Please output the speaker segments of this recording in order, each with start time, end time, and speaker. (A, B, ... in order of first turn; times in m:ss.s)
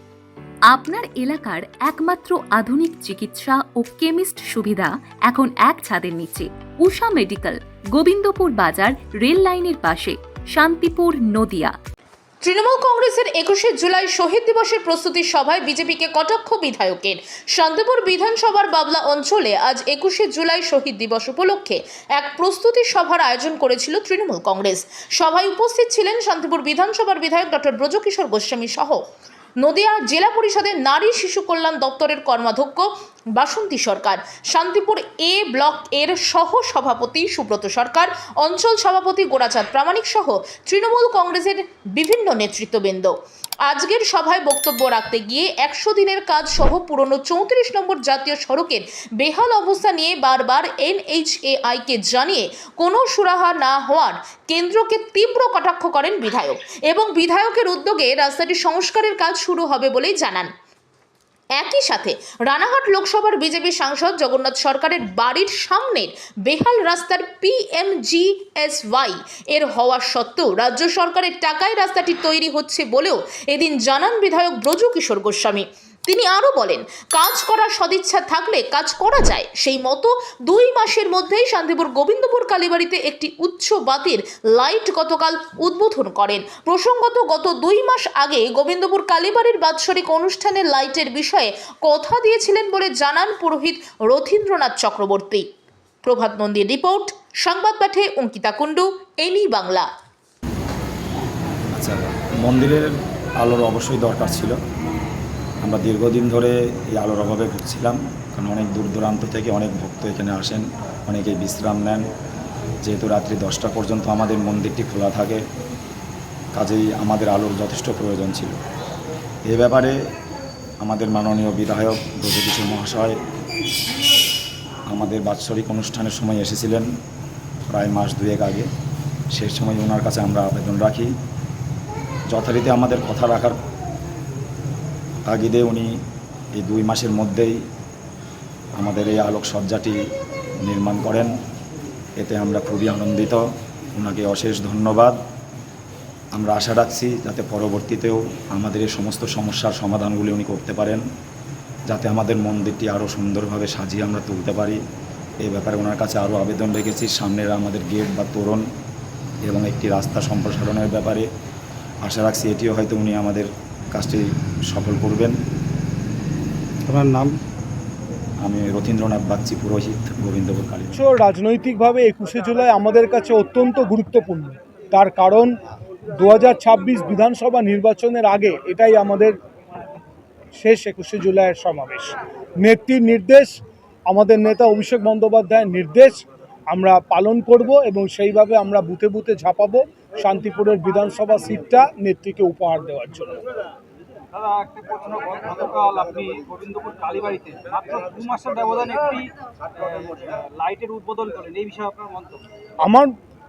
0:00.7-0:11.7 A
0:12.4-0:29.0 B
0:29.6-0:43.1 B
0:43.6-1:00.5 B
1:01.6-1:35.4 B
1:36.0-1:39.9 B
1:41.7-1:44.6 C
1:45.6-1:52.0 C
1:52.8-1:55.4 C
1:56.5-1:58.5 C
1:59.4-2:00.0 C
2:00.8-2:03.2 C
2:04.9-2:06.9 C
2:07.7-2:08.7 C
2:09.3-2:11.1 C
2:12.3-2:13.6 C
2:15.3-2:16.0 C
2:16.6-2:17.6 C
2:18.8-2:20.0 C
2:20.6-2:21.3 C
2:22.2-2:23.4 C
2:23.9-2:25.2 C
2:26.3-2:31.0 C
2:31.9-2:34.8 C
2:35.4-2:38.6 C
2:39.4-2:41.3 C
2:42.0-2:45.4 C
2:46.9-2:47.4 D
2:48.4-2:51.0 C
2:50.9-2:55.6 E
2:56.1-2:59.4 E
3:00.6-3:13.4 E
3:14.3-3:22.4 D
3:22.8-3:23.1 E